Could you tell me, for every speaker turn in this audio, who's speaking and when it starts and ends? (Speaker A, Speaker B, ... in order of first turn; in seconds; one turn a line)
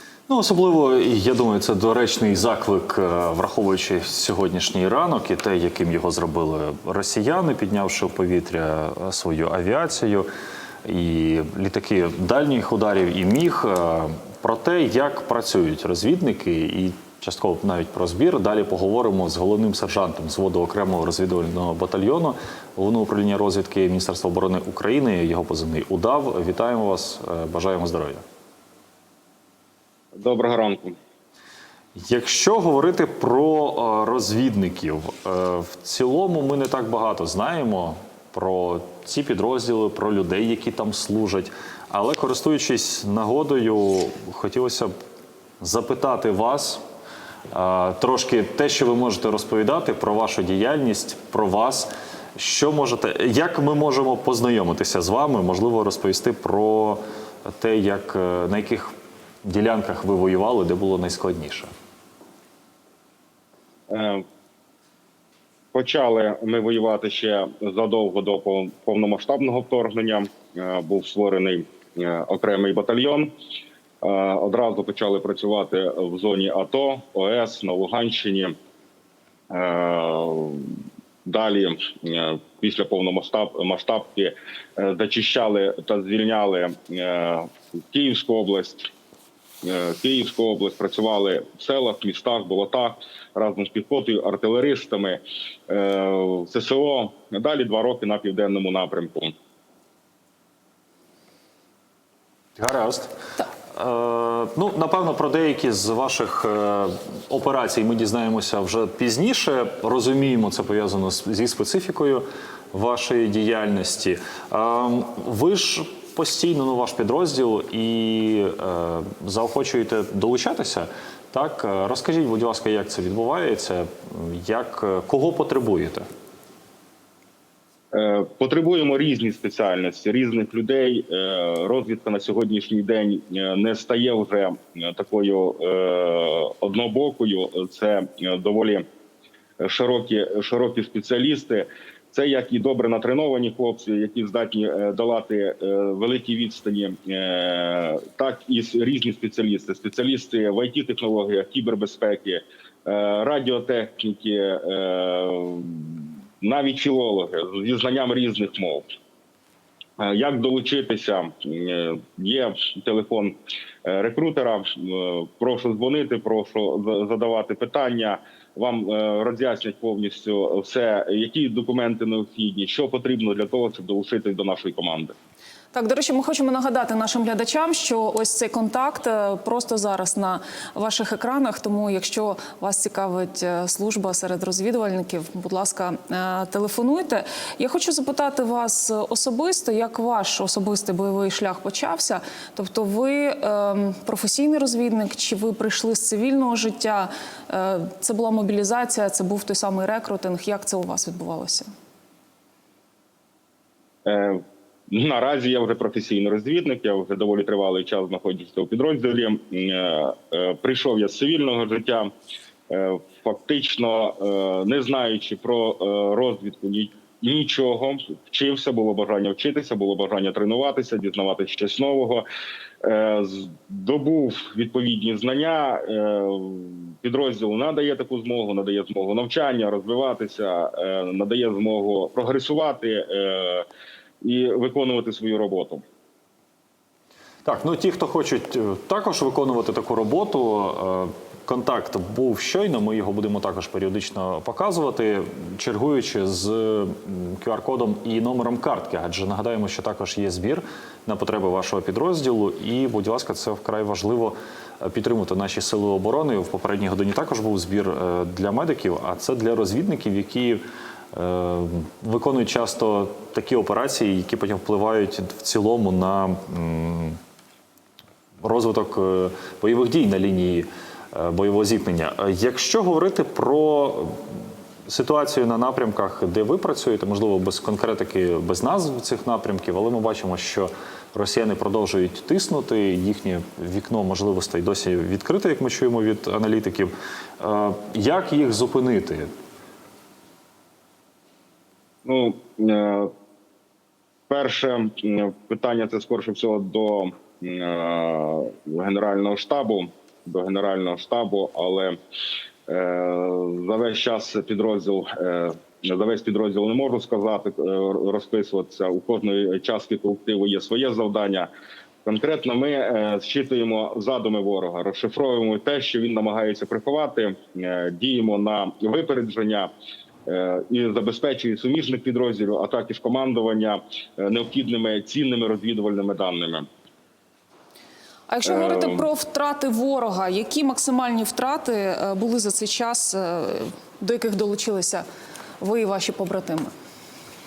Speaker A: 0.3-10.3
Speaker A: 10.8-28.2
Speaker B: 30.1-31.0
Speaker A: 31.9-44.9
Speaker A: 45.6-46.8
Speaker A: 47.5-58.9
Speaker A: 59.4-61.7
Speaker B: 63.9-64.2
Speaker B: 65.7-73.3
Speaker B: 74.0-78.5
Speaker B: 79.5-88.9
Speaker B: 89.6-99.3
Speaker A: 102.6-103.1
Speaker A: 103.7-126.1
Speaker B: 127.9-138.8
Speaker B: 139.6-158.9
Speaker B: 160.0-175.2
Speaker C: 175.7-201.7
Speaker B: 204.1-212.1
Speaker B: 212.7-222.2
Speaker B: 222.8-233.7
Speaker B: 234.2-235.8
Speaker A: 237.4-260.6
Speaker A: 261.1-267.2
Speaker A: 268.4-274.3
Speaker A: 274.9-289.3
Speaker B: 292.1-293.1
Speaker B: 294.3-302.0
Speaker B: 302.7-311.5
Speaker B: 312.1-319.7
Speaker B: 320.3-326.7
Speaker C: 328.3-335.1
Speaker B: 328.5-329.0
Speaker C: 335.6-336.7